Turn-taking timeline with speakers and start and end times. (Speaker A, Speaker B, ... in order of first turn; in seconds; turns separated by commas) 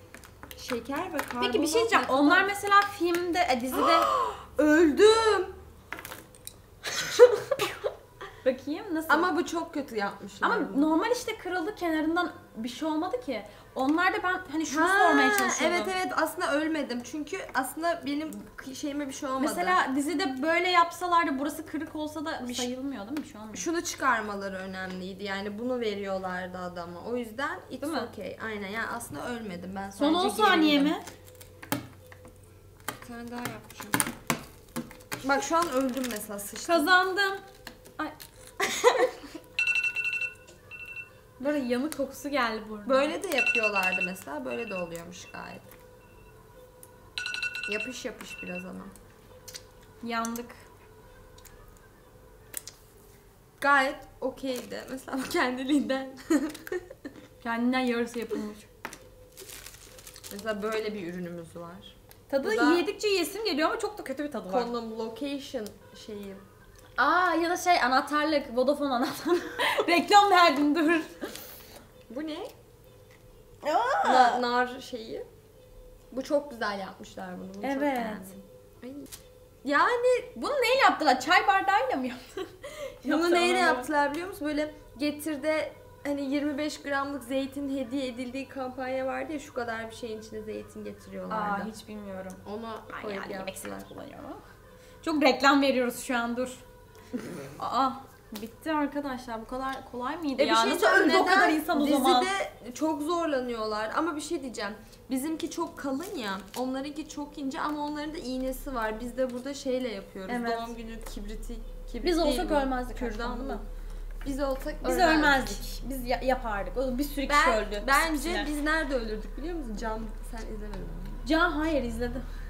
Speaker A: 0.6-2.5, Speaker B: 1.4-4.1, Speaker A: 3.7-5.6, Speaker A: 7.0-7.8, Speaker B: 8.4-9.3, Speaker A: 9.1-10.9, Speaker B: 10.4-15.9, Speaker A: 14.7-19.8, Speaker B: 19.4-23.7, Speaker A: 22.4-22.7, Speaker A: 23.5-30.9, Speaker B: 27.8-28.1, Speaker B: 30.0-31.1, Speaker A: 33.0-34.0, Speaker A: 35.2-36.9, Speaker B: 36.6-37.4, Speaker A: 38.6-39.1, Speaker B: 41.4-43.1, Speaker A: 42.9-45.7, Speaker A: 47.7-48.9, Speaker B: 50.0-50.7, Speaker A: 53.6-56.8, Speaker B: 57.4-58.7, Speaker A: 60.3-62.8, Speaker B: 62.3-64.7, Speaker A: 64.5-66.4, Speaker B: 67.0-71.3, Speaker A: 72.1-72.5, Speaker B: 73.6-74.4, Speaker A: 74.0-75.3, Speaker A: 76.1-79.1, Speaker B: 77.6-78.3, Speaker A: 79.6-80.3, Speaker B: 80.3-83.9, Speaker A: 83.0-91.7, Speaker B: 91.3-94.4, Speaker A: 92.5-93.9, Speaker B: 95.0-96.6, Speaker B: 97.6-102.3, Speaker A: 100.4-113.7, Speaker B: 110.3-110.7, Speaker B: 112.0-113.6, Speaker A: 114.2-115.6, Speaker B: 114.8-118.5, Speaker A: 117.3-121.2, Speaker B: 121.2-122.3